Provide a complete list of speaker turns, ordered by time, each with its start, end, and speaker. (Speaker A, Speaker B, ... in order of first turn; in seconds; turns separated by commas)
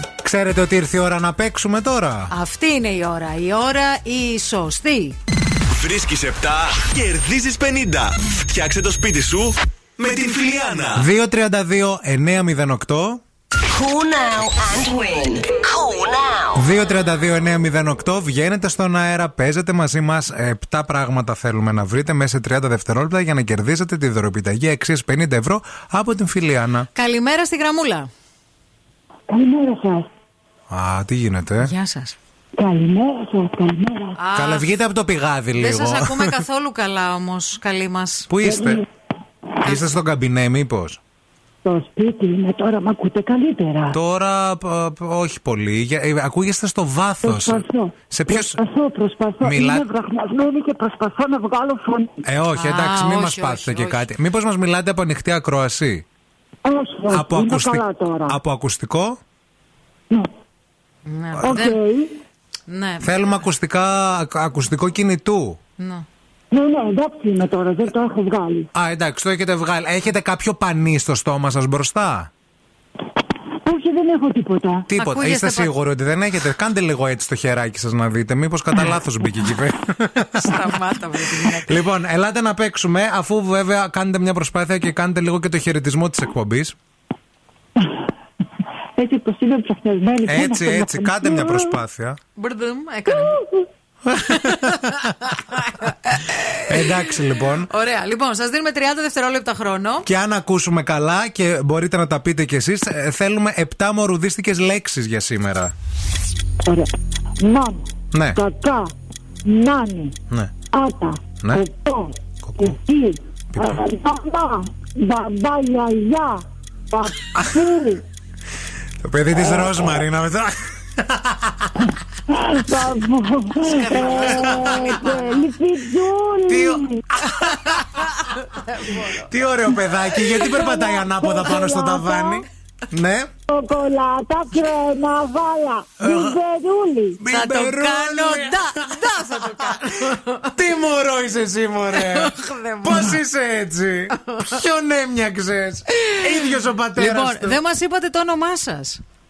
Speaker A: 0.2-2.3, Speaker B: 2.3-5.2, Speaker C: 5.7-11.0, Speaker A: 11.0-13.2, Speaker D: 13.7-16.5, Speaker A: 16.5-26.9, Speaker B: 26.9-28.1, Speaker E: 29.3-30.1, Speaker A: 30.7-31.7, Speaker B: 31.6-32.1, Speaker E: 32.5-34.2, Speaker B: 34.2-34.7, Speaker A: 34.3-36.4, Speaker B: 35.5-38.3, Speaker A: 38.3-38.8, Speaker E: 38.4-38.8, Speaker B: 39.6-39.9, Speaker A: 39.6-41.0, Speaker E: 41.6-44.0, Speaker A: 43.9-48.6, Speaker E: 47.2-52.2, Speaker A: 49.4-49.9, Speaker A: 52.2-56.0, Speaker B: 52.5-54.1, Speaker E: 56.6-58.4, Speaker A: 57.1-59.2, Speaker B: 61.0-61.8, Speaker E: 61.4-62.2, Speaker B: 62.7-63.2, Speaker A: 63.0-65.6, Speaker B: 65.8-66.0, Speaker E: 66.5-68.7, Speaker A: 68.7-72.3, Speaker E: 73.6-74.9, Speaker A: 74.9-80.7, Speaker B: 74.9-75.7, Speaker B: 80.3-81.8, Speaker A: 81.6-86.8, Speaker E: 89.0-91.8, Speaker A: 90.2-92.2, Speaker B: 92.3-93.4, Speaker E: 93.1-93.7, Speaker A: 94.0-95.1, Speaker B: 94.3-100.1, Speaker A: 96.5-97.7, Speaker A: 100.0-105.7, Speaker E: 106.6-106.9, Speaker E: 107.4-108.9, Speaker E: 109.4-110.2, Speaker E: 110.7-118.0, Speaker A: 112.5-112.7, Speaker A: 113.5-113.8, Speaker A: 119.0-121.9, Speaker E: 122.3-127.1, Speaker B: 123.6-125.4, Speaker A: 124.0-124.9, Speaker A: 126.5-128.0, Speaker B: 127.4-129.2, Speaker A: 129.0-133.3, Speaker B: 130.2-130.5, Speaker E: 130.5-132.4, Speaker E: 133.5-137.2, Speaker A: 136.0-136.4, Speaker A: 137.2-147.6, Speaker B: 137.3-140.5, Speaker B: 141.9-143.1, Speaker B: 146.1-149.0